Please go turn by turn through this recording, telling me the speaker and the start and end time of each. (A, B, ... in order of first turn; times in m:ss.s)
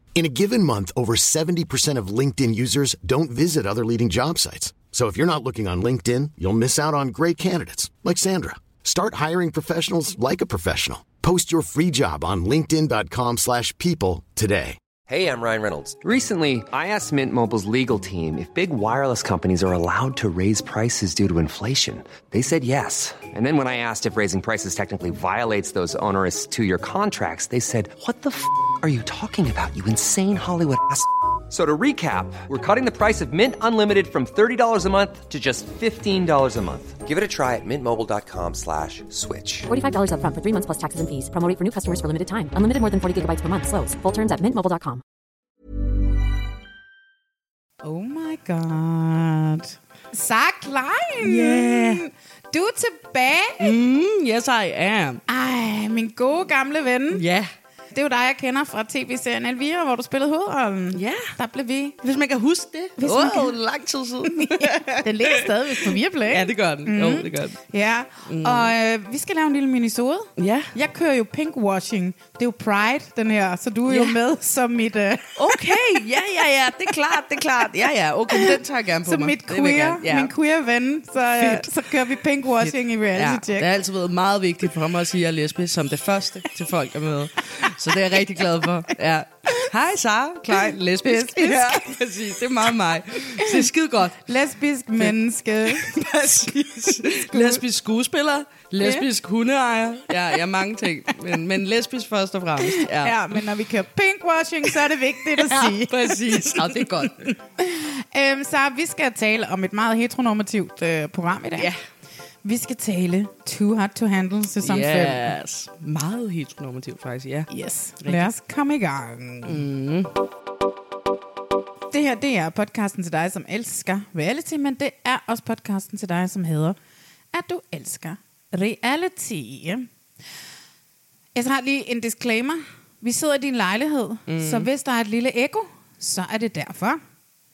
0:00.1-0:14.8 A
0:15.1-0:39.7 B
0:39.7-0:45.0 C
0:47.8-0:53.7 D
0:51.2-0:52.0 E
0:53.6-0:55.2 E
0:55.3-0:57.2 D
0:57.1-0:57.5 E
0:57.9-1:02.0 D
1:00.9-1:01.3 E
1:02.0-1:07.6 E
1:03.0-1:03.5 D
1:04.4-1:15.8 D
1:08.3-1:08.7 E
1:10.4-1:10.7 E
1:13.9-1:14.2 E
1:15.4-1:20.3 E
1:18.3-1:23.7 D
1:21.3-1:21.7 E
1:22.6-1:34.2 E
1:31.0-1:31.9 D
1:34.2-1:36.0 D
1:35.7-1:43.4 E
1:37.1-1:37.6 D
1:42.6-1:51.7 D
1:45.4-1:47.3 E
1:52.4-1:55.3 D
1:54.6-1:57.5 E
1:57.5-1:59.6 D
1:58.0-1:58.3 E
1:59.4-2:00.1 E
2:01.9-2:06.8 D
2:07.3-2:09.9 D
2:11.3-2:17.0 D
2:14.3-2:14.7 E